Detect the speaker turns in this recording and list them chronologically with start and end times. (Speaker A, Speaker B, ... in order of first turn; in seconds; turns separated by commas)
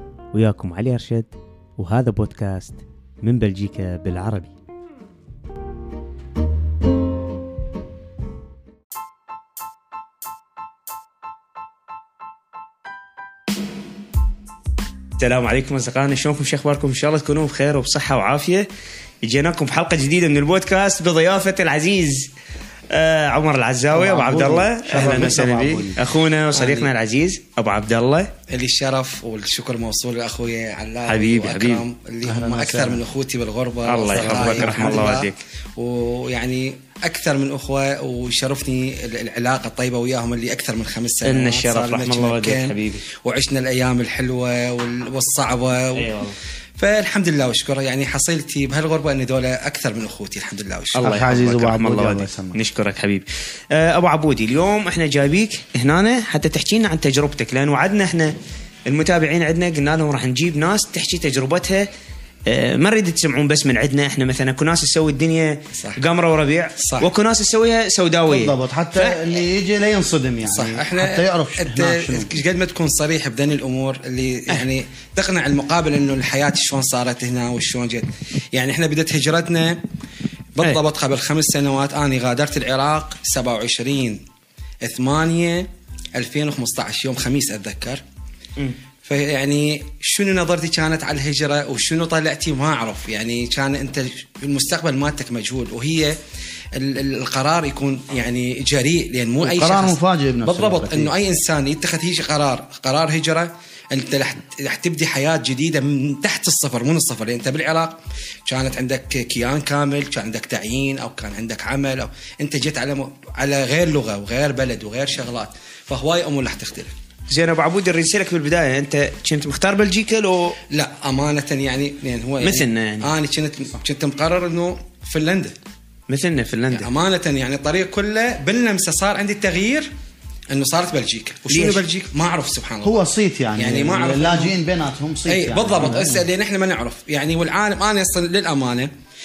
Speaker A: 0.3-4.5, Speaker A: 15.2-18.7, Speaker A: 19.2-22.3, Speaker A: 22.9-28.3, Speaker B: 23.9-26.0, Speaker B: 26.6-26.9, Speaker C: 28.5-46.1, Speaker A: 31.1-31.8, Speaker B: 32.2-33.0, Speaker A: 33.8-35.4, Speaker B: 34.1-35.1, Speaker A: 41.2-43.0, Speaker A: 45.9-46.4, Speaker C: 46.8-51.1, Speaker A: 50.9-58.3, Speaker B: 51.0-52.6, Speaker A: 58.9-61.9, Speaker A: 62.5-69.4, Speaker C: 65.7-66.0, Speaker C: 66.8-67.1, Speaker B: 68.2-72.3, Speaker C: 70.4-79.8, Speaker C: 80.5-84.2, Speaker C: 84.8-88.0, Speaker C: 89.0-96.2, Speaker C: 96.8-116.9, Speaker B: 99.4-101.1, Speaker A: 117.3-120.6, Speaker C: 120.7-125.5, Speaker A: 122.4-123.1, Speaker A: 126.1-126.9, Speaker C: 126.7-129.9, Speaker C: 130.5-133.0, Speaker A: 131.5-131.8, Speaker B: 132.8-136.2, Speaker C: 133.5-134.5, Speaker C: 135.3-138.9